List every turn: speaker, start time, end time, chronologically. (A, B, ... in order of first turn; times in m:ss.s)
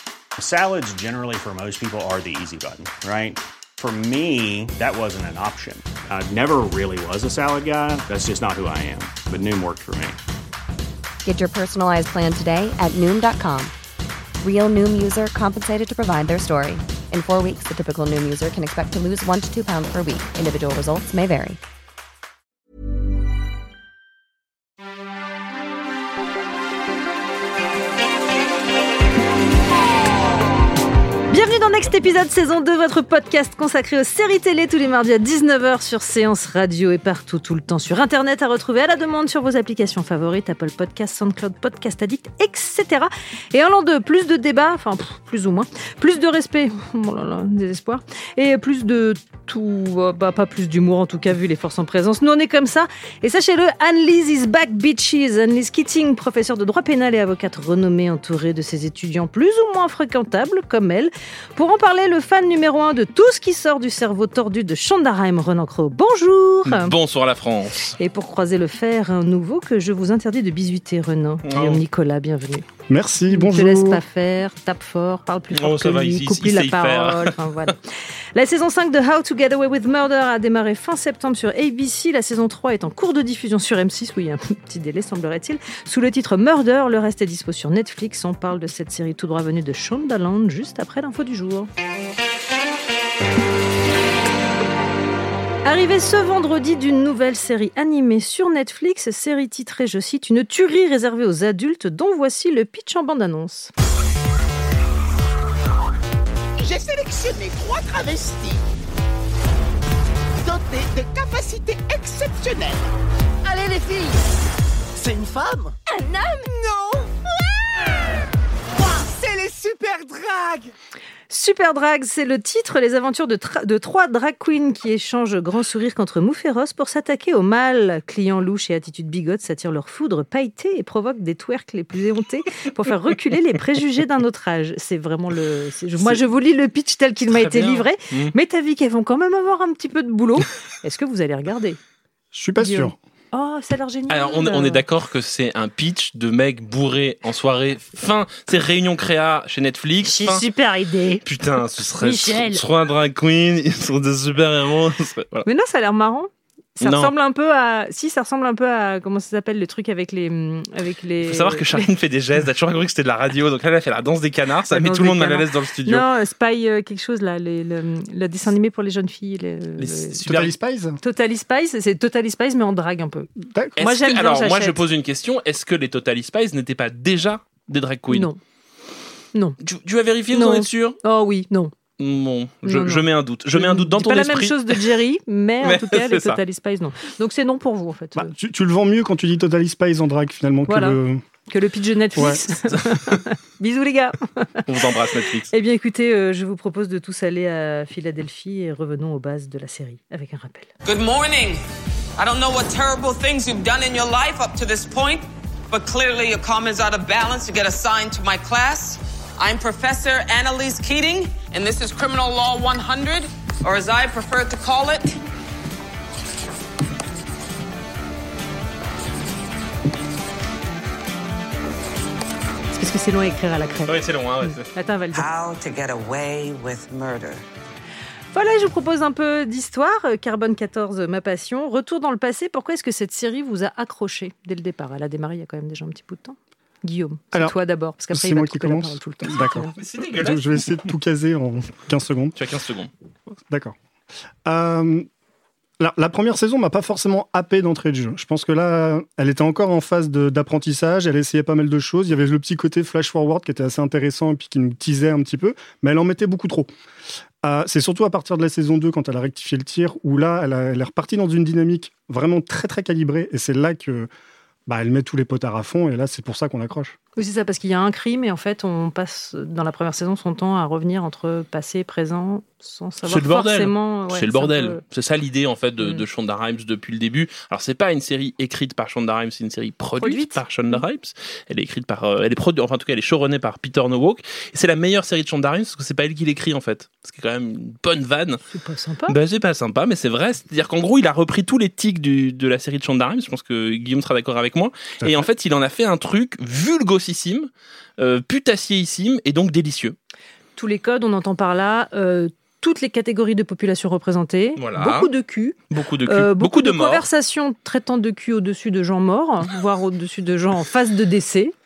0:00.4-0:10.2 A
0:11.2-0:13.7 B
0:14.4-0:21.6 B
0:31.3-1:07.0 C
1:06.6-1:08.0 D
1:08.0-1:12.6 C
1:11.4-1:11.8 D
1:12.9-1:14.0 E
1:13.3-1:17.7 C
1:15.5-1:17.7 D
1:18.3-1:31.7 C
1:35.6-1:43.7 C
1:46.6-1:48.6 F
1:50.4-1:52.8 F
1:53.4-1:54.1 F
1:55.0-1:55.7 F
1:56.5-1:57.1 F
1:58.9-2:00.7 F
2:01.3-2:21.8 C
2:17.3-2:18.3 D
2:22.3-2:23.0 E
2:22.6-2:24.8 C
2:24.1-2:30.4 D
2:30.0-2:31.2 C
2:31.2-2:35.5 D
2:32.0-2:32.6 C
2:35.4-2:41.9 C
2:36.8-2:37.1 D
2:41.2-2:46.1 D
2:44.7-2:50.2 C
2:49.8-2:50.5 D
2:50.2-2:51.0 E
2:51.0-2:53.3 C
2:53.4-2:53.8 E
2:53.8-2:58.3 D
2:53.8-2:54.8 C
2:58.1-2:58.4 C
2:59.6-3:01.0 D
3:00.3-3:01.7 C
3:02.0-3:04.8 D
3:02.6-3:08.3 C
3:05.6-3:06.4 D
3:08.1-3:11.2 E
3:10.7-3:14.6 C
3:12.1-3:12.4 E
3:14.6-3:15.5 D
3:15.5-3:20.7 C
3:20.8-3:21.6 G
3:22.2-3:35.2 G
3:42.7-3:45.3 C
3:43.8-3:44.7 D
3:45.1-3:47.4 G
3:48.3-3:59.7 C
3:58.1-4:02.4 E
3:59.7-4:00.6 D
4:02.3-4:02.9 D
4:03.5-4:03.7 E
4:04.4-4:05.1 E
4:05.8-4:16.7 E
4:17.4-4:24.1 E
4:24.7-4:26.9 E
4:27.2-4:34.8 C
4:33.0-4:48.4 D
4:40.0-4:40.8 C
4:48.5-4:49.2 C
4:49.1-4:59.9 D
4:55.0-4:55.2 E
5:00.6-5:11.5 C
5:04.6-5:05.1 D
5:05.7-5:07.1 D